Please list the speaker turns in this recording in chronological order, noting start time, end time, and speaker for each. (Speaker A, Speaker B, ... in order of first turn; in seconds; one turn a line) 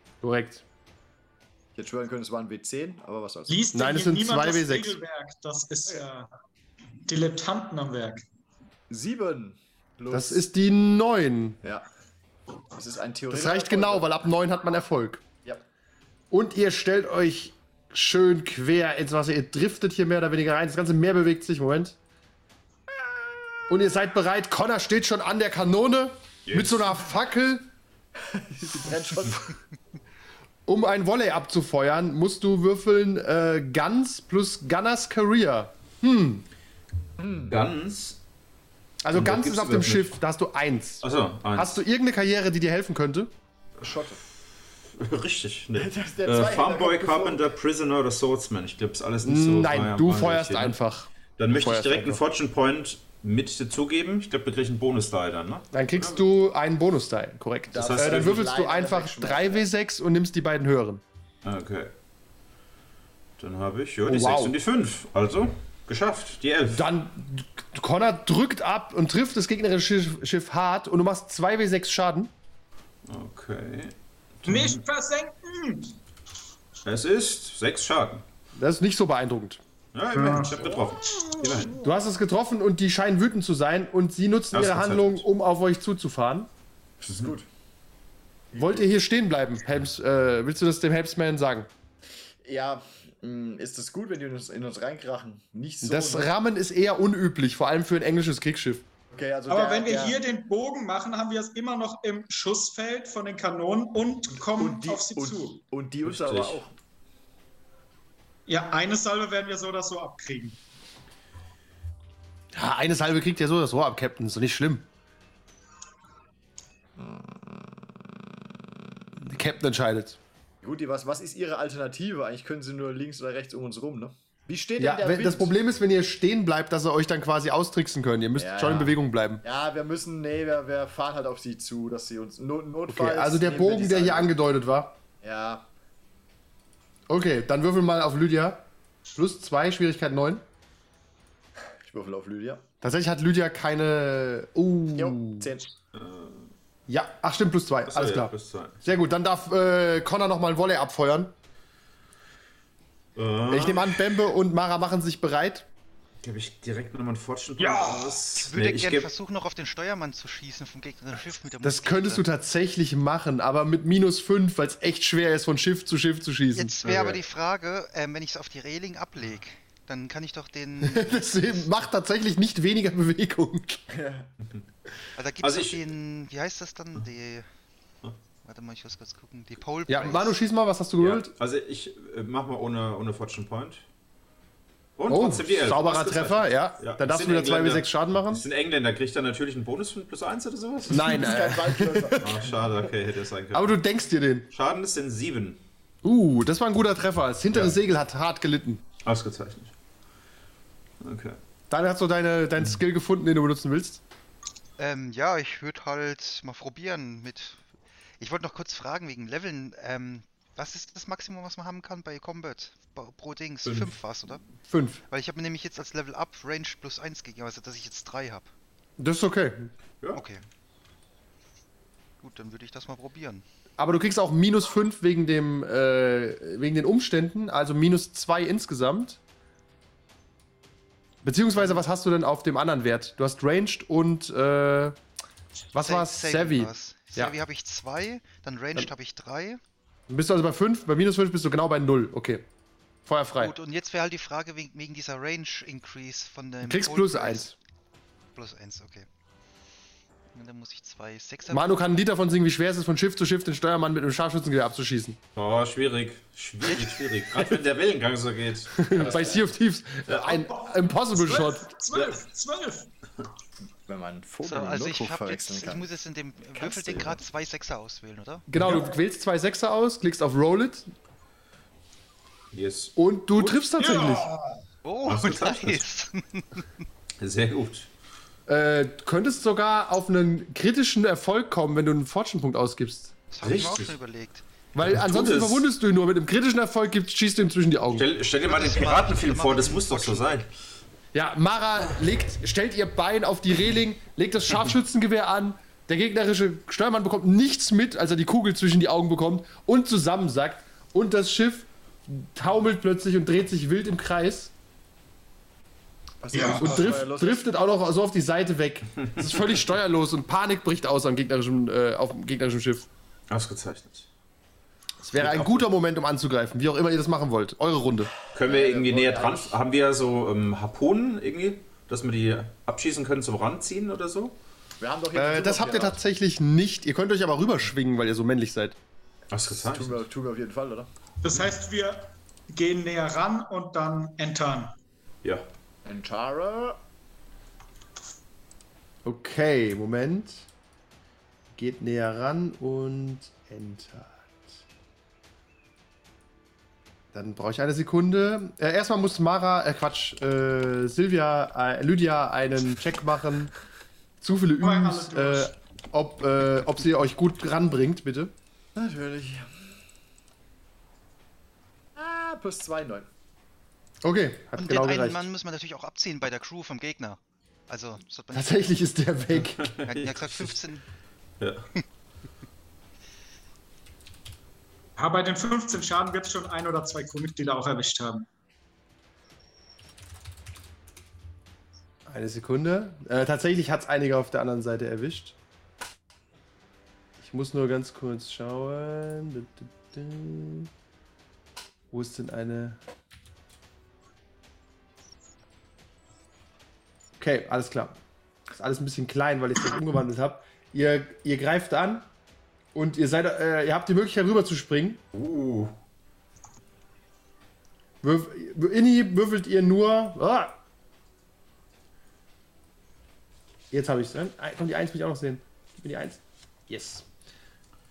Speaker A: 0.2-0.6
Speaker B: 1.8-3.6
Speaker C: 3.5-6.3
Speaker A: 3.7-5.0
Speaker C: 7.0-8.2
Speaker B: 8.9-10.4
Speaker A: 10.1-11.6
Speaker B: 12.7-14.1
Speaker A: 13.3-15.2
Speaker A: 16.3-22.0
Speaker B: 22.9-23.6
Speaker A: 23.7-27.7
Speaker D: 26.4-26.9
Speaker B: 28.3-29.6
Speaker A: 30.6-36.5
Speaker B: 37.2-37.5
Speaker D: 37.4-38.2
Speaker A: 39.0-43.3
Speaker D: 39.1-40.2
Speaker D: 41.0-41.8
Speaker B: 43.8-44.2
Speaker D: 44.9-50.8
Speaker B: 45.7-47.4
Speaker A: 49.2-52.2
Speaker D: 51.4-56.2
Speaker A: 55.7-61.0
Speaker B: 57.7-59.6
Speaker D: 57.8-58.5
Speaker D: 61.4-61.9
Speaker D: 63.4-66.9
Speaker A: 64.0-64.5
Speaker A: 66.7-72.3
Speaker D: 73.0-74.8
Speaker C: 74.5-76.0
Speaker D: 76.8-78.2
Speaker A: 78.5-79.6
Speaker D: 79.9-81.8
Speaker C: 80.1-80.7
Speaker B: 80.6-81.8
Speaker A: 81.8-86.5
Speaker D: 84.5-85.2
Speaker B: 87.0-87.5
Speaker B: 88.5-88.8
Speaker A: 88.6-91.7
Speaker B: 92.4-96.3
Speaker A: 95.8-98.8
Speaker B: 99.1-100.2
Speaker C: 99.5-105.6
Speaker B: 104.4-106.7
Speaker D: 106.0-106.6
Speaker C: 108.5-110.6
Speaker A: 112.5-114.9
Speaker B: 117.0-117.2
Speaker A: 119.2-120.2
Speaker B: 120.6-125.5
Speaker A: 124.8-129.4
Speaker B: 128.3-134.3
Speaker A: 132.9-135.0
Speaker B: 135.2-135.7
Speaker A: 137.1-140.4
Speaker B: 141.8-142.6
Speaker A: 142.8-145.5
Speaker B: 144.9-145.7
Speaker D: 145.9-146.5
Speaker A: 146.9-148.3
Speaker D: 147.8-148.8
Speaker A: 148.8-151.3
Speaker D: 153.2-154.0
Speaker A: 153.5-155.7
Speaker D: 156.2-159.1
Speaker E: 158.3-162.2
Speaker A: 161.6-166.8
Speaker E: 166.6-171.3
Speaker D: 166.8-167.2
Speaker A: 170.8-173.8
Speaker B: 173.9-174.3
Speaker E: 175.2-177.5
Speaker D: 175.4-175.8
Speaker E: 178.4-180.3
Speaker A: 179.9-181.3
Speaker D: 181.0-183.8
Speaker D: 185.0-191.3
Speaker A: 185.1-188.4
Speaker B: 190.9-192.5
Speaker A: 190.9-192.5
Speaker D: 192.2-193.8
Speaker A: 193.5-194.5
Speaker D: 194.5-195.6
Speaker A: 196.0-198.8
Speaker D: 197.5-197.8
Speaker D: 199.0-199.7
Speaker D: 201.0-201.4
Speaker A: 201.7-204.0
Speaker E: 204.8-207.6
Speaker E: 208.2-214.4
Speaker D: 213.6-213.9
Speaker A: 214.6-215.0
Speaker E: 215.1-218.5
Speaker A: 219.0-219.7
Speaker E: 220.1-220.4
Speaker E: 222.2-223.4
Speaker A: 223.8-229.2
Speaker A: 231.2-234.9
Speaker A: 235.7-237.3
Speaker E: 235.8-239.6
Speaker A: 240.1-242.4
Speaker A: 243.1-243.5
Speaker E: 243.4-247.5
Speaker A: 246.6-247.5
Speaker E: 248.3-249.1
Speaker E: 250.3-251.8
Speaker A: 251.5-255.2
Speaker D: 255.3-259.4
Speaker A: 258.8-261.7
Speaker D: 260.1-260.5
Speaker C: 261.1-262.9
Speaker B: 263.9-265.9
Speaker E: 264.4-268.5
Speaker B: 266.6-267.2
Speaker A: 268.5-270.9
Speaker D: 272.5-273.6
Speaker A: 272.9-274.3
Speaker C: 273.8-274.6
Speaker E: 274.8-276.6
Speaker D: 275.1-275.8
Speaker D: 277.2-277.9
Speaker A: 278.5-283.1
Speaker E: 283.3-284.4
Speaker D: 283.4-283.9
Speaker A: 284.7-288.1
Speaker D: 284.8-285.6
Speaker D: 287.9-290.5
Speaker E: 288.4-290.5
Speaker A: 291.1-304.5
Speaker B: 306.2-307.5
Speaker C: 306.3-306.9
Speaker A: 306.3-312.9
Speaker D: 313.3-314.1
Speaker A: 315.0-318.1
Speaker D: 315.1-315.7
Speaker D: 318.3-324.4
Speaker B: 318.5-319.6
Speaker B: 324.8-326.0
Speaker A: 325.1-328.8
Speaker D: 329.3-330.1
Speaker B: 329.5-330.9
Speaker C: 331.2-334.7
Speaker B: 335.8-336.8
Speaker A: 339.0-340.5
Speaker A: 341.6-344.6
Speaker A: 347.1-353.5
Speaker A: 354.2-358.3
Speaker C: 354.6-355.5
Speaker B: 358.8-359.5
Speaker B: 361.9-363.1
Speaker A: 364.0-365.3
Speaker E: 364.6-368.6
Speaker A: 368.3-369.6
Speaker D: 369.4-370.6
Speaker E: 369.8-370.8
Speaker D: 371.4-371.6
Speaker C: 375.0-378.2
Speaker A: 382.1-385.4
Speaker A: 387.2-390.7
Speaker A: 391.9-392.8
Speaker A: 397.2-398.0
Speaker A: 398.5-402.1
Speaker A: 402.7-405.0
Speaker D: 405.1-405.7
Speaker A: 408.0-410.6
Speaker A: 413.7-417.1